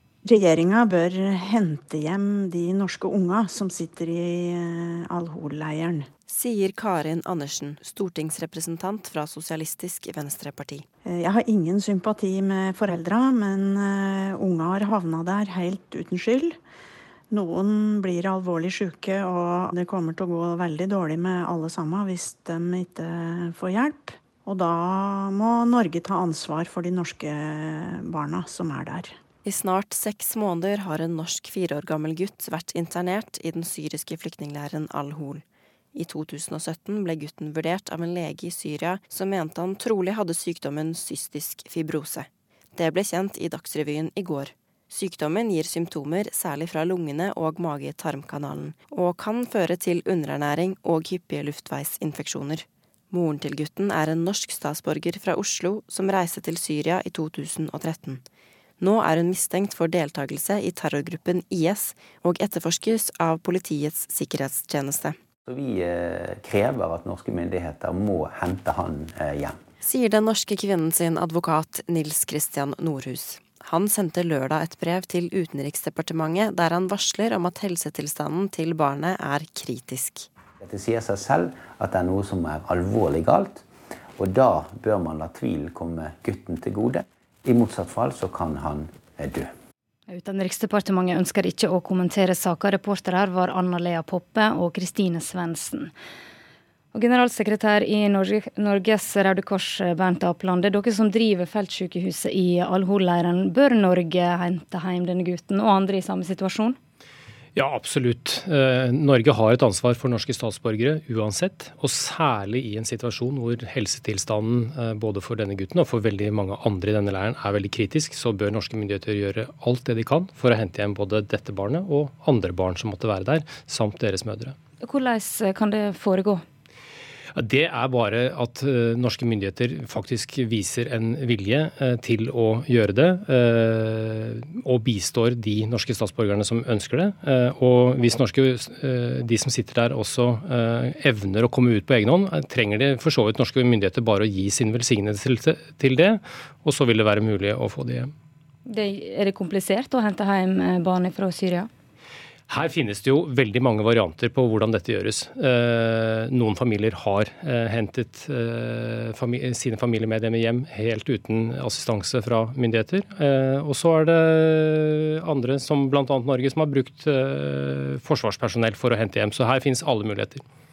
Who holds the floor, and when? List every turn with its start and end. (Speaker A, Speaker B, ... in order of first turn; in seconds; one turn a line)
Speaker A: 0.2-6.1
Speaker B: 6.3-10.8
Speaker A: 11.0-16.6
Speaker A: 17.3-29.1
Speaker B: 29.4-35.4
Speaker B: 35.9-58.2
Speaker B: 58.8-65.2
Speaker C: 65.4-69.6
Speaker B: 69.8-80.3
Speaker C: 80.6-89.5
Speaker D: 90.1-95.9
Speaker D: 96.9-106.8
Speaker E: 107.5-124.5
Speaker D: 124.8-126.4
Speaker E: 127.3-148.1
Speaker D: 148.7-151.7
Speaker E: 152.5-170.4